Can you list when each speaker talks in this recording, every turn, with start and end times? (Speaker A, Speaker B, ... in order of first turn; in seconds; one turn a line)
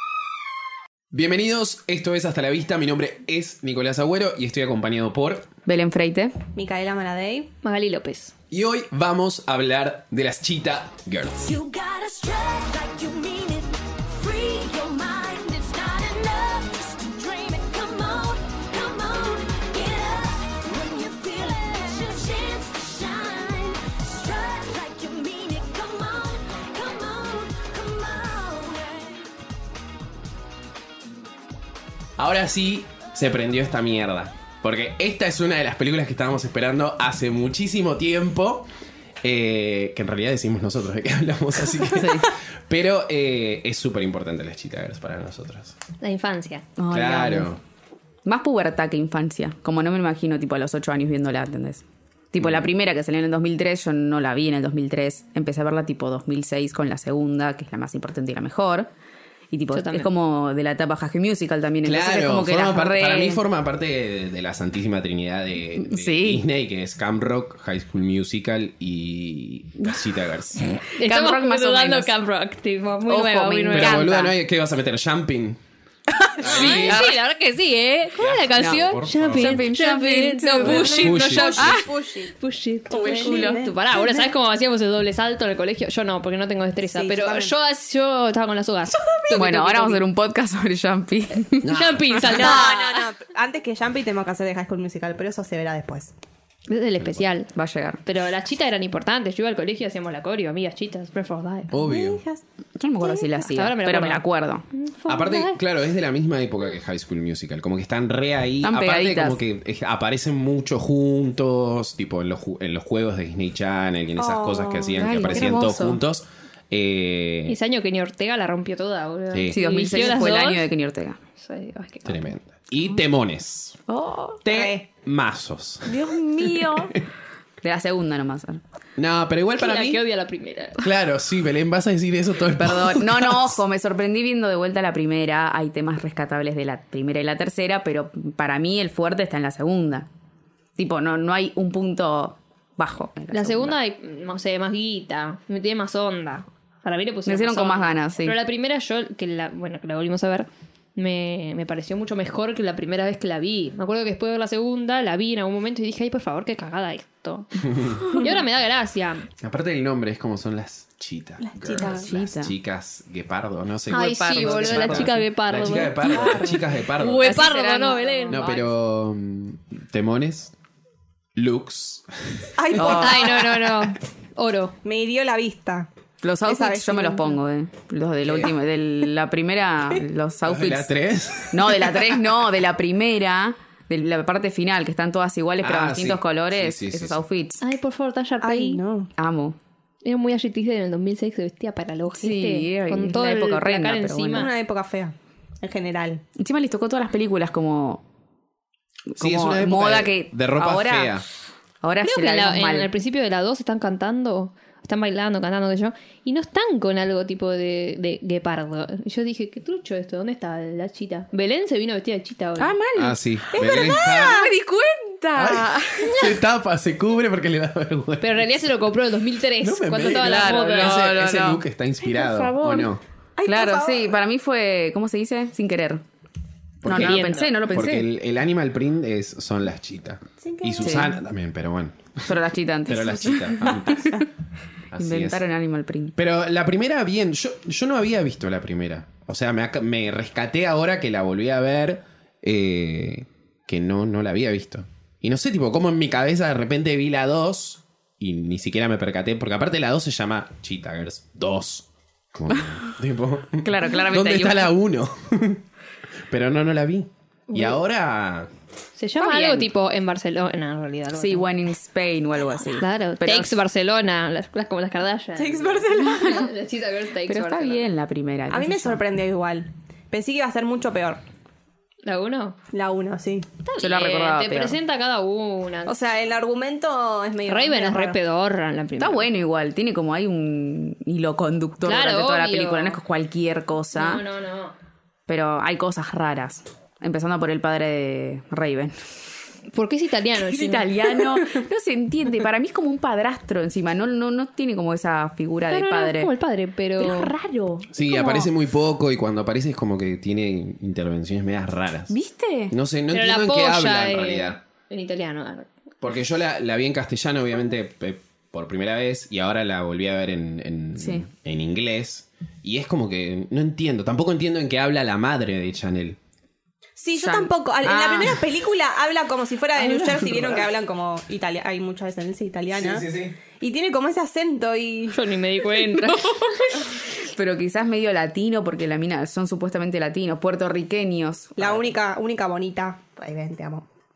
Speaker A: 1.1-5.5
Speaker B: 5.7-6.3
Speaker C: 6.5-7.5
Speaker D: 7.6-8.3
Speaker A: 8.5-11.6
Speaker E: 11.5-29.2
Speaker B: 11.9-13.1
Speaker B: 14.2-15.5
Speaker B: 16.1-18.4
Speaker B: 24.4-25.9
Speaker B: 28.3-28.8
Speaker A: 32.2-38.7
Speaker A: 39.2-45.8
Speaker B: 41.9-42.3
Speaker D: 46.0-46.6
Speaker B: 46.8-47.5
Speaker A: 46.9-47.6
Speaker B: 48.2-58.9
Speaker A: 52.4-52.7
Speaker B: 59.5-63.4
Speaker D: 59.7-60.1
Speaker A: 61.8-70.7
Speaker B: 65.8-66.4
Speaker B: 70.9-72.1
Speaker D: 71.0-74.2
Speaker B: 73.1-74.3
Speaker A: 73.7-75.6
Speaker B: 76.3-77.1
Speaker A: 76.4-77.2
Speaker D: 76.4-90.0
Speaker A: 78.2-79.7
Speaker B: 78.6-81.9
Speaker C: 80.6-82.3
Speaker A: 80.6-81.7
Speaker B: 82.9-83.6
Speaker C: 82.9-84.3
Speaker C: 86.8-87.5
Speaker C: 89.0-89.4
Speaker B: 89.3-92.2
Speaker A: 91.6-92.3
Speaker D: 91.6-93.1
Speaker C: 92.2-96.1
Speaker D: 96.7-97.5
Speaker B: 97.5-98.0
Speaker D: 98.0-101.7
Speaker A: 101.7-102.2
Speaker C: 101.7-102.4
Speaker B: 102.8-104.6
Speaker C: 103.0-103.3
Speaker D: 103.4-105.6
Speaker A: 105.1-117.6
Speaker B: 108.6-109.4
Speaker C: 114.2-115.5
Speaker B: 115.0-116.0
Speaker D: 117.5-120.7
Speaker A: 119.3-119.6
Speaker B: 119.5-121.2
Speaker D: 121.4-122.2
Speaker A: 122.0-123.8
Speaker B: 123.9-124.4
Speaker A: 124.4-127.0
Speaker C: 124.5-124.8
Speaker B: 125.8-127.0
Speaker B: 127.6-128.6
Speaker A: 129.0-130.0
Speaker D: 129.5-130.8
Speaker A: 130.8-133.6
Speaker B: 132.6-140.1
Speaker B: 140.8-143.8
Speaker D: 143.3-159.3
Speaker B: 147.2-148.4
Speaker A: 157.6-158.1
Speaker A: 159.4-167.5
Speaker C: 161.4-162.0
Speaker B: 161.7-162.5
Speaker B: 163.9-165.2
Speaker D: 163.9-166.4
Speaker B: 166.0-168.7
Speaker D: 167.2-168.4
Speaker A: 168.3-170.5
Speaker A: 171.3-172.9
Speaker C: 172.6-173.7
Speaker B: 172.7-173.2
Speaker D: 173.0-174.7
Speaker C: 174.8-175.9
Speaker B: 176.2-180.9
Speaker C: 176.4-177.4
Speaker A: 178.2-178.5
Speaker A: 180.4-182.1
Speaker B: 181.5-187.6
Speaker A: 185.6-187.2
Speaker D: 187.6-188.8
Speaker C: 188.4-189.1
Speaker B: 189.2-189.6
Speaker D: 190.0-194.5
Speaker B: 192.1-194.5
Speaker C: 194.3-196.2
Speaker B: 196.3-198.0
Speaker B: 199.1-201.2
Speaker A: 199.2-201.2
Speaker B: 201.8-202.9
Speaker D: 202.0-212.7
Speaker B: 212.6-216.3
Speaker A: 212.9-214.5
Speaker C: 213.5-214.5
Speaker A: 215.3-218.6
Speaker D: 218.2-221.0
Speaker A: 219.6-223.0
Speaker B: 220.0-222.9
Speaker C: 223.4-224.2
Speaker B: 223.4-226.0
Speaker A: 226.8-234.3
Speaker B: 226.8-228.1
Speaker D: 226.8-227.5
Speaker C: 230.4-231.1
Speaker B: 230.8-231.1
Speaker B: 232.2-234.3
Speaker A: 234.9-235.4
Speaker B: 234.9-236.1
Speaker A: 236.2-255.6
Speaker B: 253.6-254.7
Speaker A: 256.3-258.5
Speaker D: 259.0-261.5
Speaker B: 259.2-259.7
Speaker B: 261.1-263.6
Speaker D: 262.8-267.8
Speaker C: 265.4-266.5
Speaker B: 266.0-266.5
Speaker B: 267.3-269.0
Speaker C: 268.5-271.2
Speaker D: 272.0-272.6
Speaker C: 272.7-273.5
Speaker D: 273.6-276.0
Speaker B: 273.8-274.8
Speaker C: 275.9-278.2
Speaker D: 277.5-279.3
Speaker B: 279.0-284.2
Speaker D: 281.8-283.0
Speaker D: 283.9-284.7
Speaker B: 285.3-288.9
Speaker D: 289.7-291.2
Speaker B: 290.5-296.3
Speaker D: 295.7-297.3
Speaker B: 297.0-298.5
Speaker A: 297.9-302.1
Speaker B: 302.1-302.7
Speaker A: 302.7-304.6
Speaker D: 303.1-305.7
Speaker A: 306.0-316.2
Speaker B: 311.0-311.2
Speaker C: 317.0-325.2
Speaker B: 317.1-318.4
Speaker B: 319.8-320.5
Speaker A: 322.7-323.4
Speaker D: 325.1-326.7
Speaker B: 325.9-331.8
Speaker C: 331.6-333.8